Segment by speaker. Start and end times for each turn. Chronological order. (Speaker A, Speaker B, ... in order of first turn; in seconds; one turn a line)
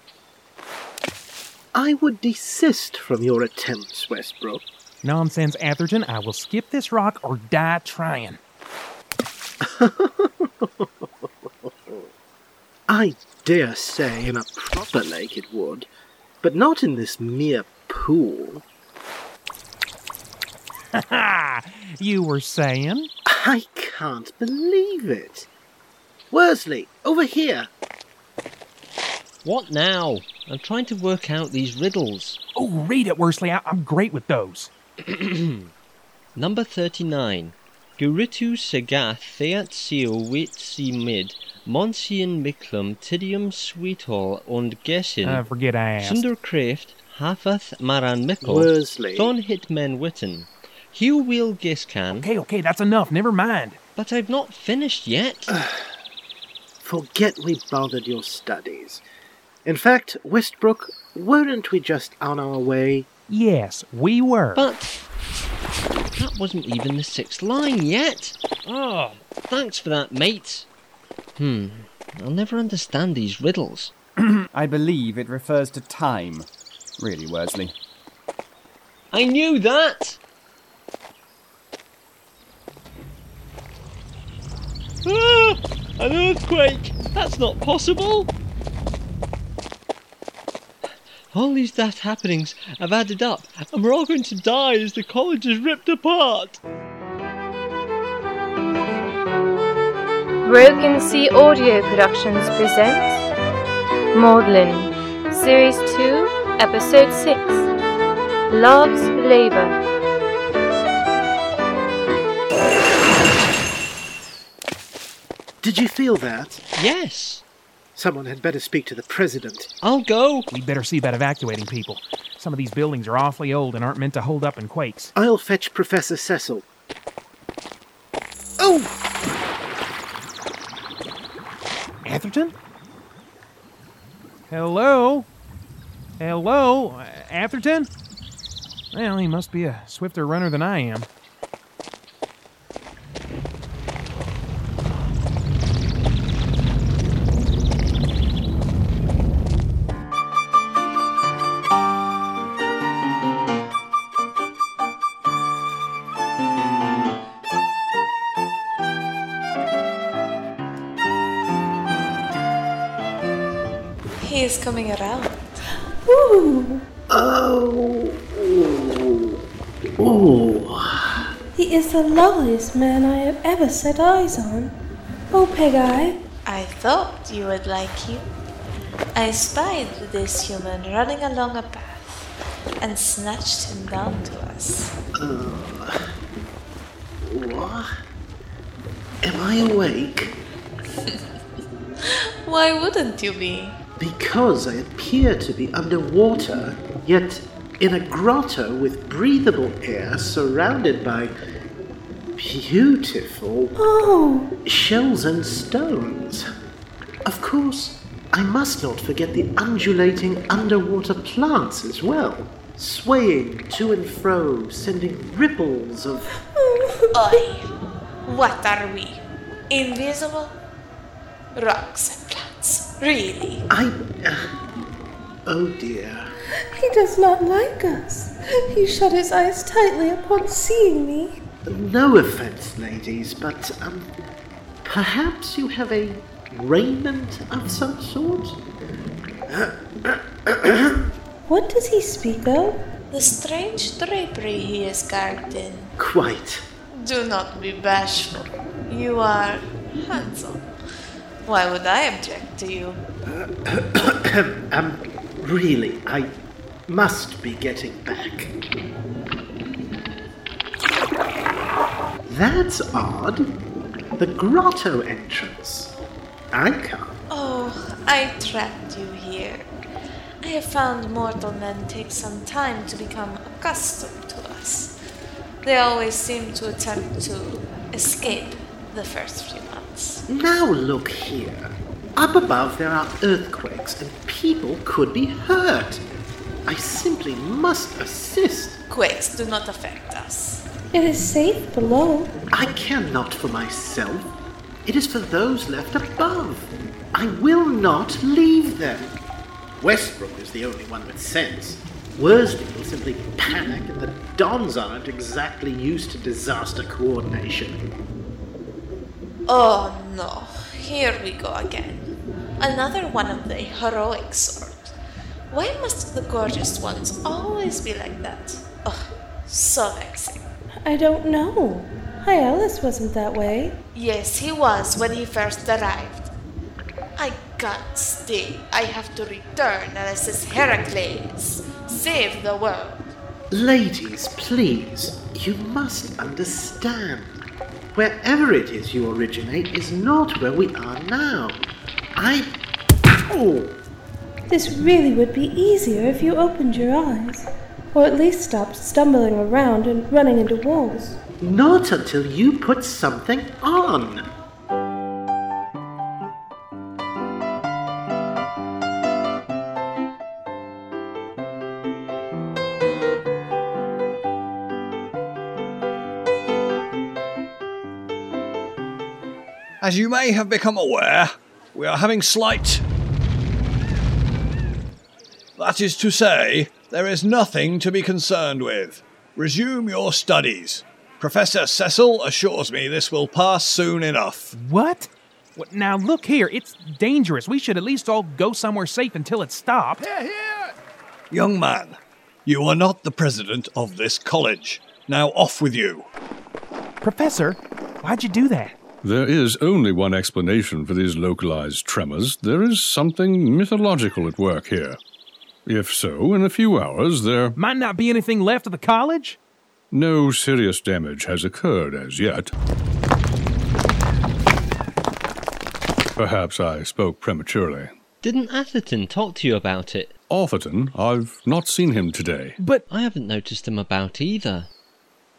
Speaker A: 1.7-4.6
Speaker B: 5.0-8.4
Speaker A: 9.6-12.1
Speaker A: 12.9-15.9
Speaker A: 16.4-18.6
Speaker B: 20.9-23.1
Speaker A: 23.3-25.5
Speaker A: 26.3-27.7
Speaker C: 29.4-32.4
Speaker B: 32.5-34.7
Speaker C: 35.1-35.7
Speaker C: 36.4-45.4
Speaker B: 45.2-46.2
Speaker C: 46.0-52.3
Speaker A: 48.4-49.3
Speaker B: 52.2-53.8
Speaker C: 54.0-55.5
Speaker A: 55.5-55.9
Speaker A: 56.8-59.0
Speaker A: 59.6-63.1
Speaker B: 63.3-64.6
Speaker C: 64.5-64.9
Speaker C: 66.2-70.7
Speaker C: 71.4-73.9
Speaker D: 74.5-77.7
Speaker C: 79.1-80.2
Speaker C: 85.0-88.3
Speaker C: 91.3-96.6
Speaker E: 100.4-103.3
Speaker E: 104.1-107.7
Speaker E: 108.5-109.8
Speaker A: 115.6-116.6
Speaker C: 116.8-117.4
Speaker A: 118.0-119.7
Speaker C: 119.8-120.5
Speaker B: 120.5-125.1
Speaker A: 125.1-126.7
Speaker A: 128.6-128.9
Speaker B: 132.0-132.5
Speaker B: 134.5-135.3
Speaker B: 136.2-137.9
Speaker B: 138.9-141.1
Speaker F: 164.2-165.6
Speaker G: 166.0-166.8
Speaker A: 167.1-169.4
Speaker A: 170.0-171.2
Speaker G: 171.5-174.8
Speaker G: 175.3-176.2
Speaker F: 176.4-178.3
Speaker F: 179.1-184.9
Speaker A: 185.2-186.0
Speaker A: 187.2-187.9
Speaker A: 189.2-190.3
Speaker F: 191.0-191.4
Speaker F: 192.0-193.8
Speaker A: 194.0-201.3
Speaker A: 202.4-203.7
Speaker G: 203.8-204.5
Speaker A: 204.6-206.4
Speaker A: 207.2-216.3
Speaker G: 216.5-217.4
Speaker F: 217.1-217.7
Speaker F: 218.2-220.5
Speaker F: 221.6-223.6
Speaker A: 223.7-224.4
Speaker A: 225.4-226.3
Speaker G: 226.7-231.4
Speaker A: 231.7-234.1
Speaker A: 234.8-238.6
Speaker A: 239.5-241.1
Speaker G: 241.4-242.8
Speaker F: 243.1-245.9
Speaker A: 246.0-246.7
Speaker F: 246.9-250.7
Speaker F: 251.4-253.0
Speaker A: 253.3-256.3
Speaker A: 256.9-258.5
Speaker A: 262.2-263.5
Speaker A: 264.2-265.9
Speaker A: 266.5-267.2
Speaker F: 267.3-269.7
Speaker F: 270.4-274.9
Speaker F: 275.6-280.2
Speaker A: 280.3-286.0
Speaker A: 286.7-288.8
Speaker F: 288.9-290.6
Speaker G: 290.9-292.3
Speaker A: 292.5-294.3
Speaker A: 294.9-299.1
Speaker A: 299.8-307.8
Speaker F: 309.5-312.1
Speaker F: 312.6-314.9
Speaker F: 315.5-320.4
Speaker G: 320.8-323.8
Speaker F: 323.9-326.3
Speaker F: 327.2-333.1
Speaker A: 333.5-337.3
Speaker A: 337.9-341.6
Speaker A: 342.2-342.5
Speaker A: 343.1-343.8
Speaker G: 344.5-351.2
Speaker A: 351.4-354.2
Speaker H: 369.8-372.8
Speaker H: 375.6-384.5
Speaker B: 384.5-390.0
Speaker H: 390.1-390.7
Speaker H: 391.3-396.1
Speaker B: 397.0-398.8
Speaker I: 399.0-405.0
Speaker I: 405.6-407.6
Speaker B: 407.5-409.4
Speaker I: 409.9-412.5
Speaker I: 416.2-417.9
Speaker C: 418.2-420.1
Speaker I: 420.3-422.6
Speaker B: 422.6-422.8
Speaker C: 422.9-424.7